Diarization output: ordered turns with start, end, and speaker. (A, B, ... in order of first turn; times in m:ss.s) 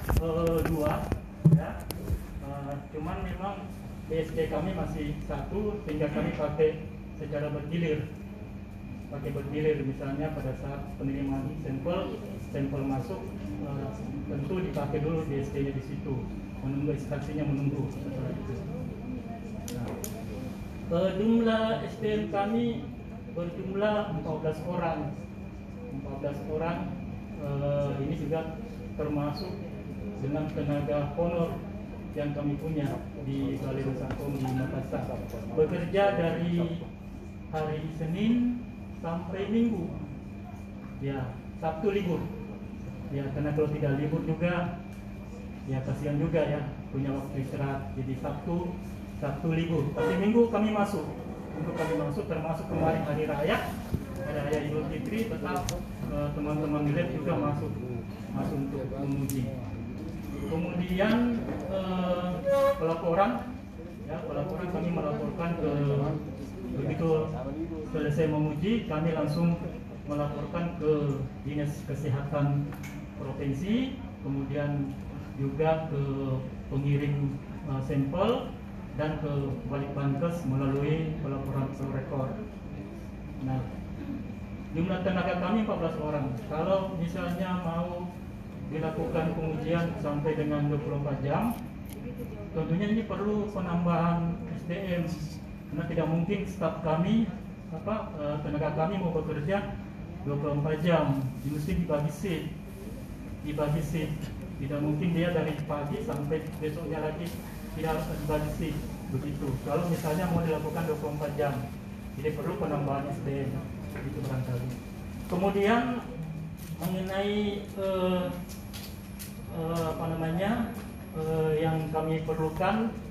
0:00.2-0:01.8 A
0:02.4-0:08.0 A
0:09.1-0:18.6 A
0:20.9-0:22.8 A
0:23.3-0:25.1 A
0:25.9-0:26.8 A
0:27.4-0:28.5 A
0:29.0-0:29.5 A
0:30.2-0:31.6 A
0:32.1-0:36.8 A
0:37.5-0:40.0 A
0:41.0-0:42.2 A
0:43.1-0:44.6 A
0:45.7-0:53.6 A
0:54.2-0:57.8 A
0:58.3-0:59.5 A
1:00.4-1:03.4 A
1:04.0-1:06.1 A
1:06.7-1:07.3 A
1:07.9-1:09.6 A
1:10.1-1:12.6 A
1:13.2-1:14.8 A
1:15.4-1:18.4 A
1:19.0-1:22.3 A
1:24.7-1:28.0 A
1:28.7-1:31.5 A
1:32.5-1:35.1 A
1:35.7-1:39.6 A
1:40.2-1:42.4 A
1:43.4-1:51.6 A
1:52.2-1:54.8 A
1:55.3-1:55.9 A
1:56.8-1:58.3 A
1:59.5-2:00.6 A
2:01.1-2:02.8 A